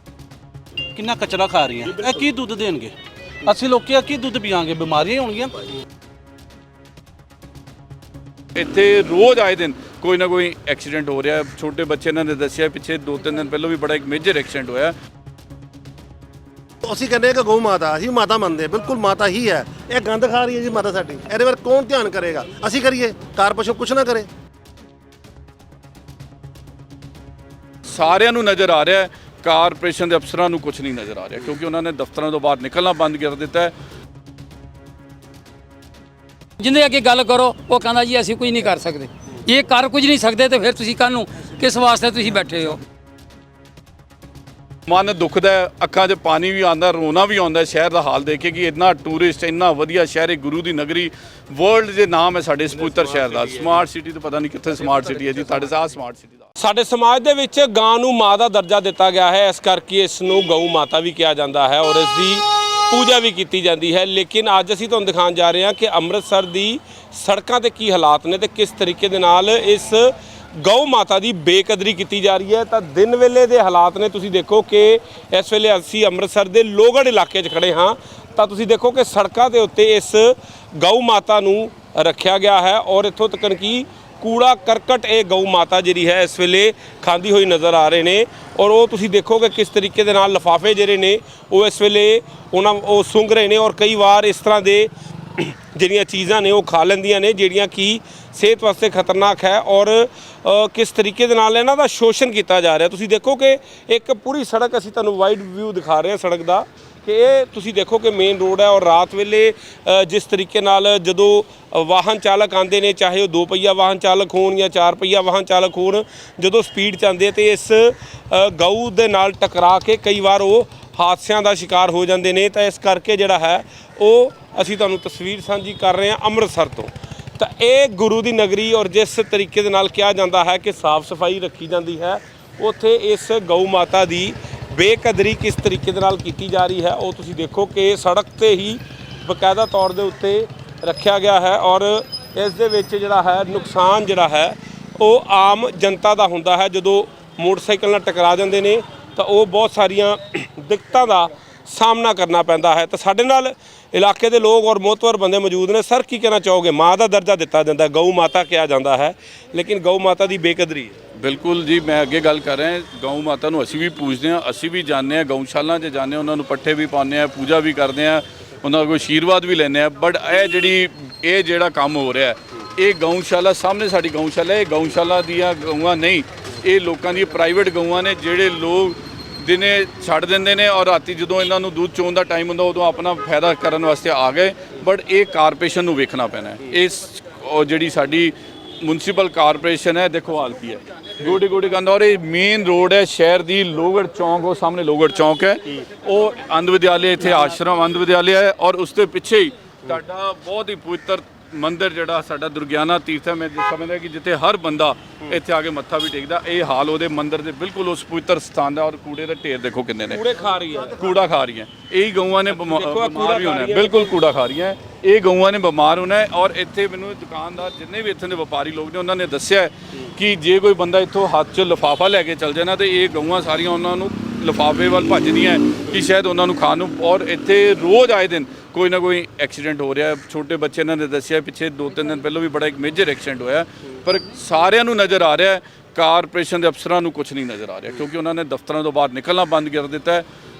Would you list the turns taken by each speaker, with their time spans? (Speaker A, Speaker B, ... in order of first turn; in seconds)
Speaker A: 0.9-2.9, 3.4-5.5
Speaker B: 8.5-14.9, 27.9-33.7, 44.9-56.5, 161.1-210.2, 210.9-240.3
Speaker C: 16.8-24.3, 210.7-211.3
Speaker D: 36.6-42.8
Speaker E: 56.6-160.9, 210.1-211.0, 212.5-214.2